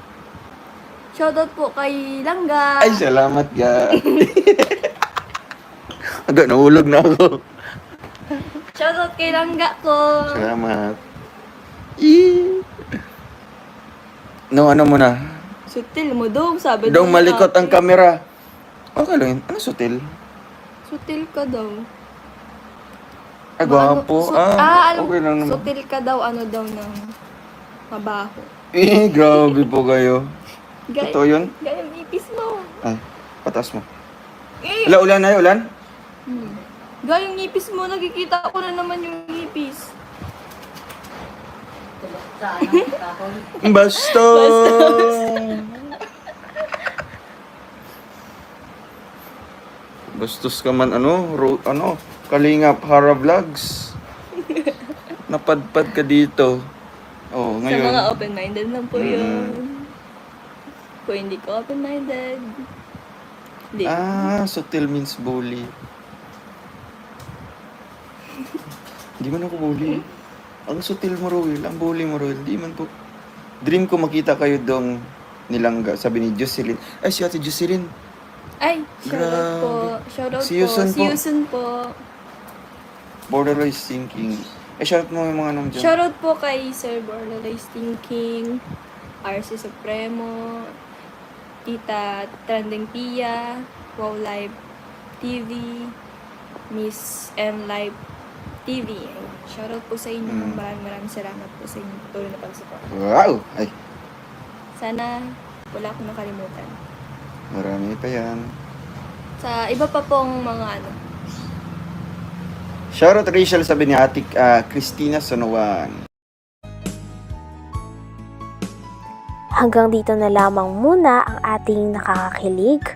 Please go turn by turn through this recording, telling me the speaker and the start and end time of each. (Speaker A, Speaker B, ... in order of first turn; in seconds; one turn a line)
Speaker A: 1.1-3.0
Speaker B: 2.8-4.8
Speaker A: 4.1-4.4
Speaker B: 6.3-7.4
Speaker A: 8.6-10.5
Speaker B: 10.3-11.0
Speaker B: 12.0-12.6
Speaker B: 14.5-15.1
Speaker A: 15.7-17.8
Speaker B: 16.8-18.2
Speaker B: 18.9-20.0
Speaker A: 20.9-21.9
Speaker B: 23.6-25.7
Speaker A: 23.6-27.1
Speaker A: 27.9-28.5
Speaker B: 28.7-30.2
Speaker A: 29.3-29.7
Speaker A: 30.9-32.8
Speaker B: 31.0-31.5
Speaker B: 32.8-33.9
Speaker A: 34.6-35.0
Speaker B: 34.8-35.7
Speaker A: 36.3-39.9
Speaker A: 42.5-43.0
Speaker B: 43.6-45.9
Speaker A: 43.6-45.7
Speaker B: 50.1-53.9
Speaker A: 54.4-54.7
Speaker B: 55.3-56.5
Speaker B: 57.3-58.1
Speaker A: 57.6-59.9
Speaker B: 58.9-59.6
Speaker A: 61.0-62.6
Speaker A: 63.7-64.3
Speaker B: 63.8-65.7
Speaker B: 69.2-70.0
Speaker B: 70.7-72.9
Speaker B: 73.6-74.9
Speaker B: 75.5-77.9
Speaker A: 78.6-81.9
Speaker B: 79.0-81.2
Speaker B: 83.3-85.9
Speaker A: 85.7-88.6
Speaker A: 89.2-90.6
Speaker A: 91.7-94.5
Speaker A: 95.2-95.9
Speaker A: 96.7-98.0
Speaker A: 98.7-102.9
Speaker B: 100.2-100.6
Speaker B: 102.9-103.7
Speaker A: 104.8-105.1
Speaker A: 105.7-106.8
Speaker B: 107.5-108.5
Speaker A: 109.4-111.0
Speaker B: 112.9-116.0
Speaker C: 119.6-122.8